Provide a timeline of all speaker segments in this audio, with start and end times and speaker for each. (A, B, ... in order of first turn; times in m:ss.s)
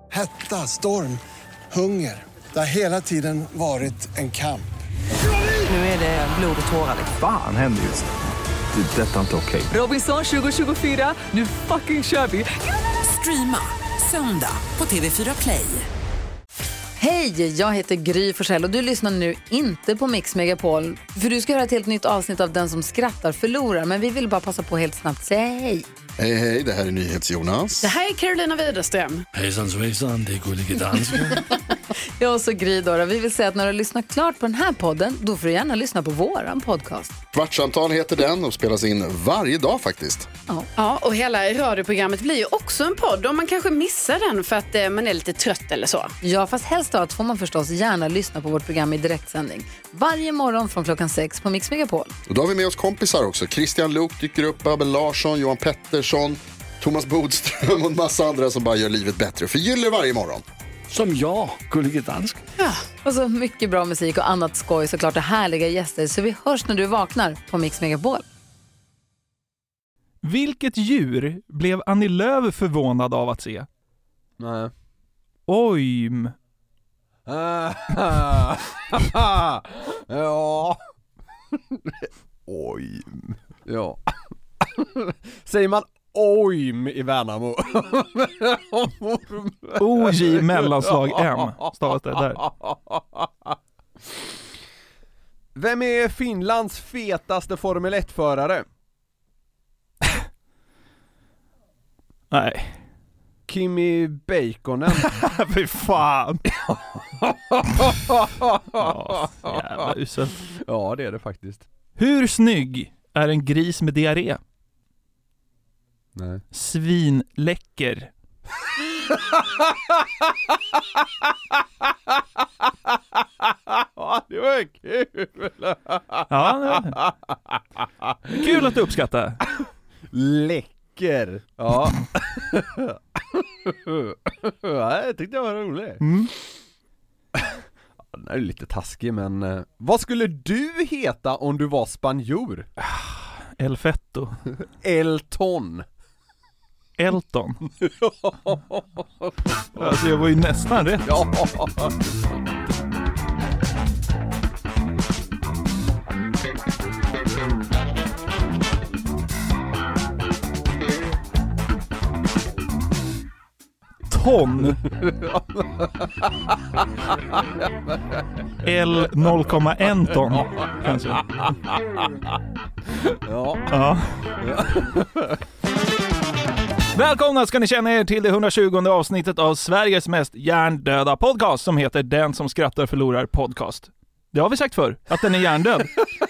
0:00.1-0:04.7 A
0:05.6-0:07.1 B
0:07.2-0:08.1 C
0:08.7-0:09.7 C
0:09.7-0:15.9 B
0:17.0-0:25.9 D
0:26.2-0:27.9 E
0:27.8-0:29.2 F
0:29.3-0:31.4 G
0:32.2-0:37.2 D
0:37.3-0:40.3 E
0:40.8-0:46.1 F
0:46.2-0:52.1 D
0:52.3-1:00.4 E
1:00.9-1:02.4 G
1:02.6-1:08.2 D
1:10.2-1:13.7 H
1:14.4-1:14.7 I
1:15.5-1:16.3 H
1:17.3-1:20.8 I
1:21.5-1:24.0 I
1:24.6-1:31.4 I
1:29.8-1:32.4 H
1:32.4-1:33.6 I
1:35.6-1:38.6 I
1:42.3-1:42.8 H
1:43.5-1:45.2 I
1:45.0-1:46.4 H
1:46.5-1:49.7 I
1:48.8-1:50.4 H
1:50.6-1:51.7 I
1:52.0-1:54.4 H
1:56.2-1:56.4 I
1:56.5-1:58.1 H
1:59.1-1:59.7 I
2:03.4-2:08.6 I
2:06.3-2:07.0 H
2:08.4-2:09.4 H
2:10.1-2:16.0 I
2:16.0-2:16.3 H
2:18.1-2:22.7 I
2:22.8-2:24.4 H
2:24.8-2:25.8 I
2:27.0-2:27.6 H
2:27.8-2:29.9 I
2:29.8-2:31.2 H
2:31.0-2:32.0 I
2:44.1-2:44.8 H
2:45.0-2:46.3 I
2:47.3-2:48.2 I
2:48.6-2:51.2 H
2:49.8-2:50.7 I
2:52.0-2:52.4 I
2:53.0-2:53.7 I
2:53.7-2:54.1 H
2:54.4-2:55.4 I
2:57.0-3:05.9 H